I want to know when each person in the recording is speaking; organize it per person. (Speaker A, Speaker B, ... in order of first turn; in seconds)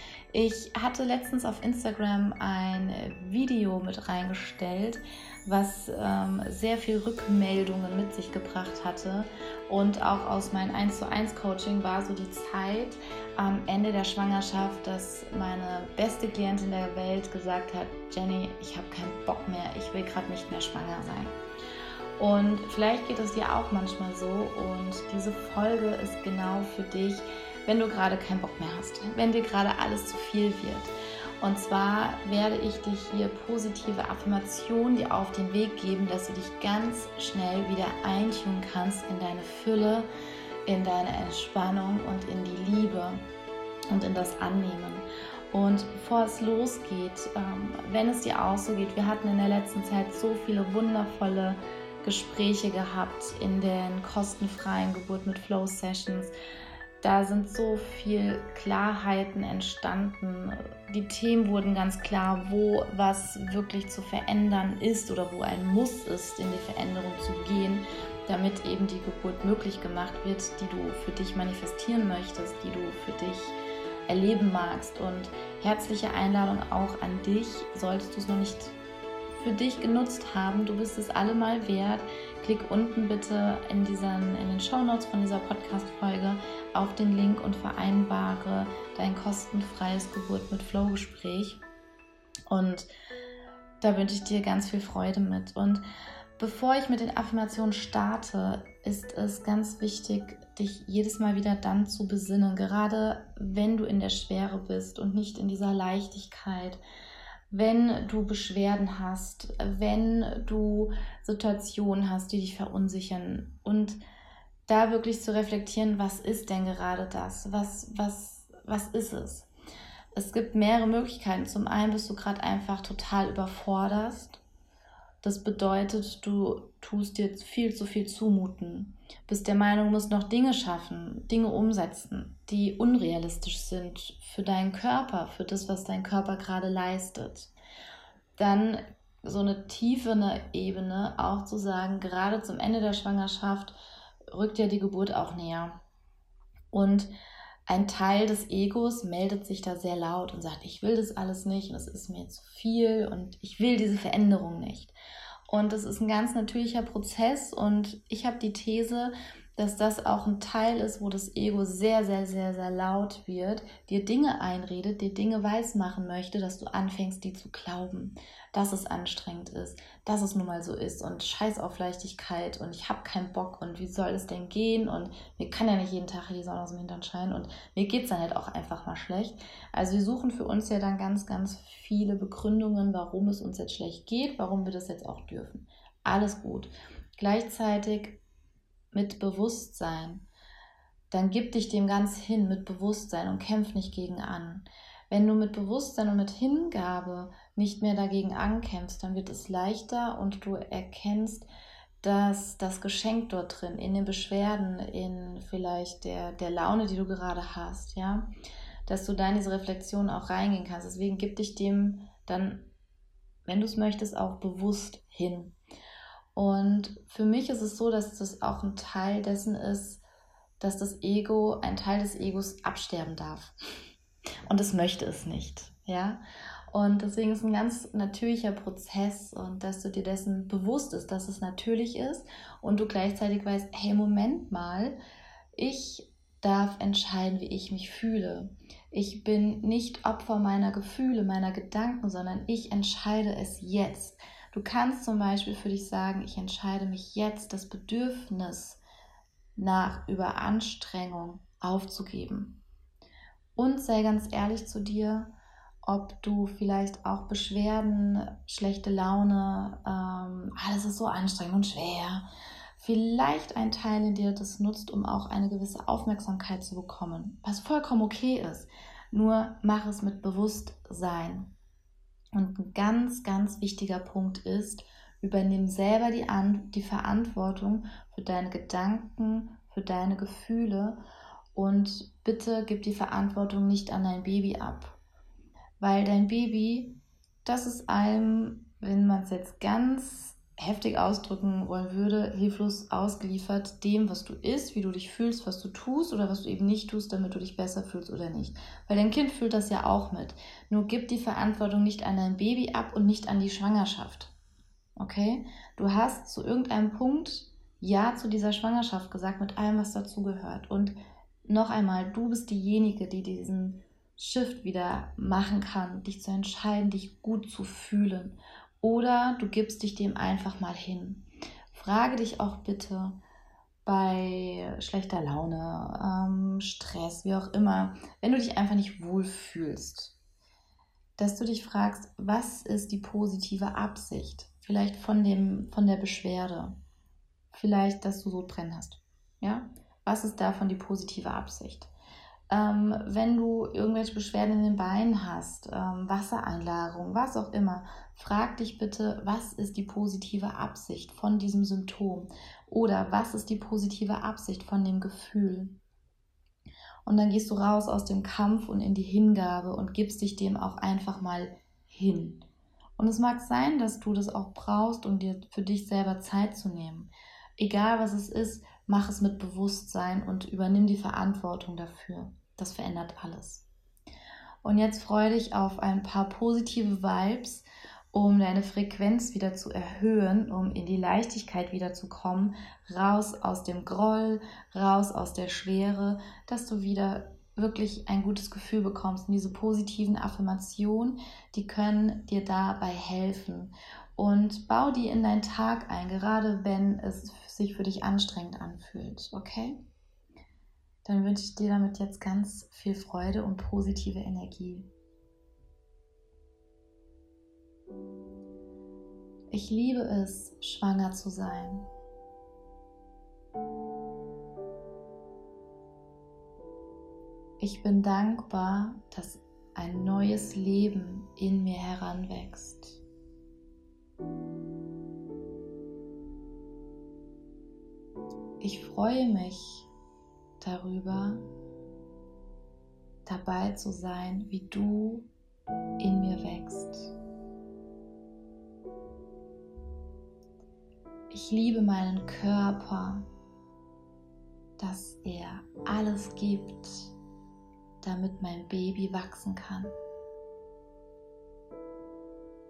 Speaker A: 0.3-21.4, 22.2-40.1, 40.7-43.3, 43.9-56.3, 57.0-78.8, 79.3-91.6, 92.5-92.9, 93.8-95.8, 96.4-106.8, 107.5-114.0, 114.7-119.5, 120.2-124.4, 125.2-137.5, 138.4-143.8, 144.3-145.8, 146.7-147.1, 147.7-155.0, 155.5-188.2, 188.9-190.2, 191.1-201.5, 202.0-208.3, 208.9-212.7, 213.5-215.6, 216.3-220.0, 220.6-223.5, 224.5-235.0, 235.5-248.8, 249.6-252.6, 253.6-262.3, 262.8-271.5, 272.3-281.0, 281.5-285.0, 285.8-304.3, 305.0-323.2, 323.9-330.2, 331.2-336.8, 337.5-341.9, 342.5-355.8, 357.1-362.5, 363.0-373.7, 374.6-399.8, 401.1-404.9, 409.5-411.9, 417.6-423.0, 428.6-429.9, 430.6-431.5, 433.3-435.3, 436.0-437.1, 441.3-443.3, 444.8-447.2, 448.0-449.9